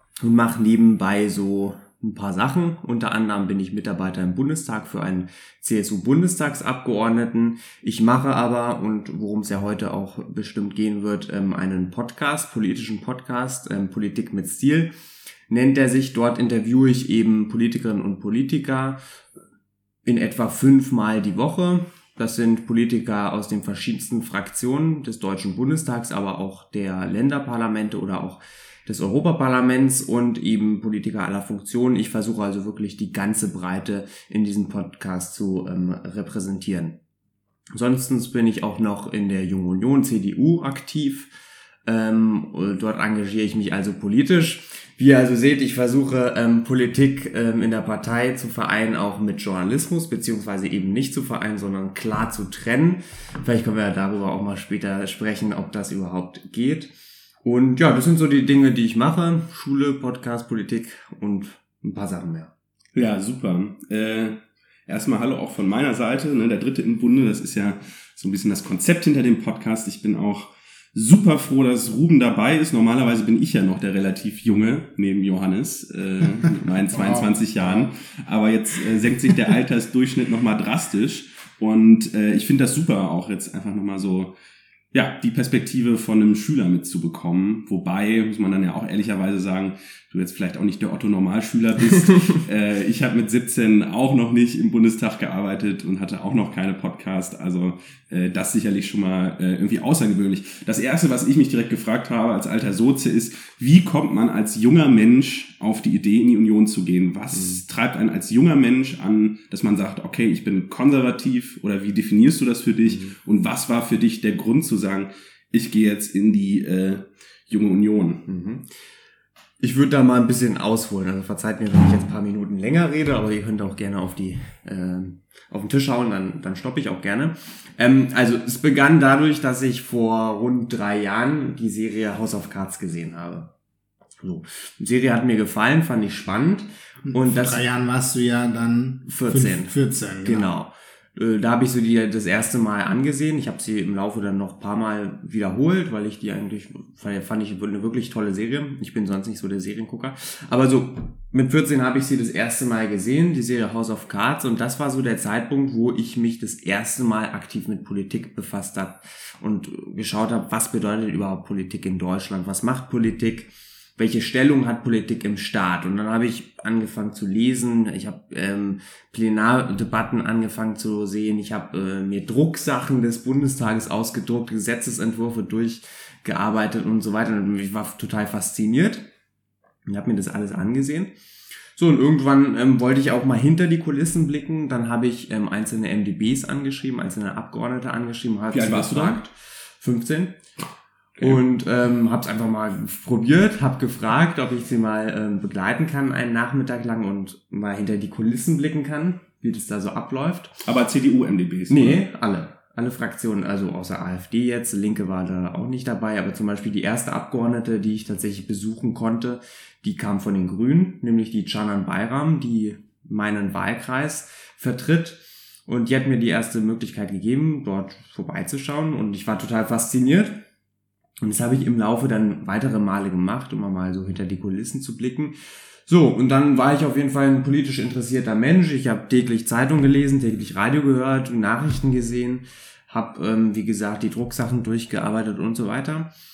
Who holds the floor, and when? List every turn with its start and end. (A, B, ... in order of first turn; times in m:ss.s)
0:00.2-0:14.9 A
0:15.5-0:19.0 A
0:20.0-0:37.0 A
0:37.7-0:41.3 A
0:41.9-0:56.9 A
0:57.4-1:02.5 A
1:03.0-1:24.3 B
1:16.9-1:17.9 C
1:24.9-1:58.2 B
1:52.8-1:53.2 A
1:58.3-1:58.7 A
1:59.6-2:13.5 A
2:14.2-2:17.7 A
2:17.1-2:20.5 C
2:19.1-2:59.1 A
2:59.9-3:01.1 A
3:01.8-3:10.4 A
3:08.5-3:09.2 B
3:11.2-3:20.6 A
3:20.6-3:22.0 B
3:21.7-3:40.4 A
3:41.2-3:45.4 A
3:45.9-3:56.1 A